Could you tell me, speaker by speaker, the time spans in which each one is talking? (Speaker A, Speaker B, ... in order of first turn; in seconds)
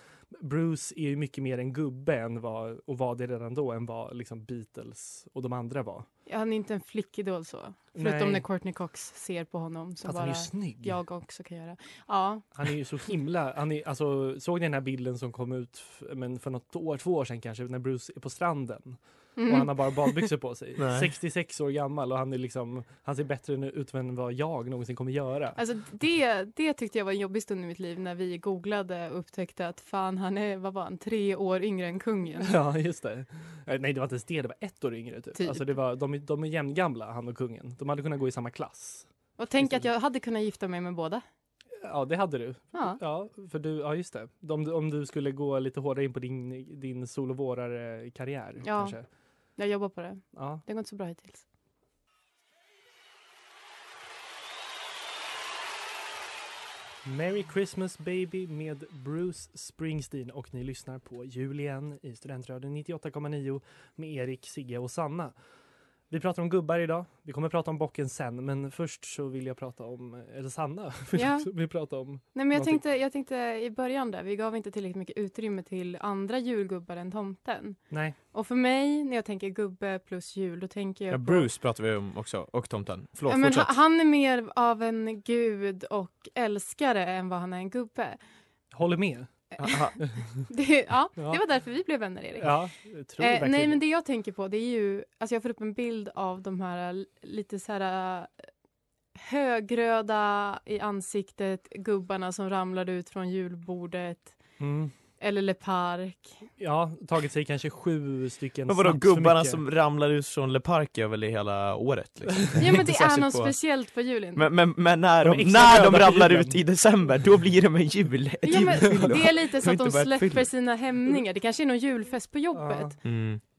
Speaker A: 0.3-6.1, 7.9-8.4, 10.0-10.9, 12.5-25.6, 32.4-39.9, 41.8-49.0, 50.3-50.6, 57.0-65.3, 66.1-72.8, 77.9-78.2, 88.7-89.3, 92.4-93.8, 104.6-104.9, 106.6-109.6, 115.2-116.6, 122.5-122.9
Speaker B: 6.3-12.5, 19.4-20.3, 25.6-32.5, 35.4-35.6, 39.4-41.2, 42.7-43.0, 48.6-49.0, 49.6-51.4, 71.1-71.5, 72.3-81.5, 83.3-88.2, 89.6-90.0, 90.5-92.6, 93.2-98.3, 99.1-104.4, 105.2-106.4, 112.6-114.5, 118.4-123.0
Speaker C: 20.8-21.1, 81.1-83.7, 89.6-90.0, 108.7-113.5, 114.3-120.5, 123.0-123.4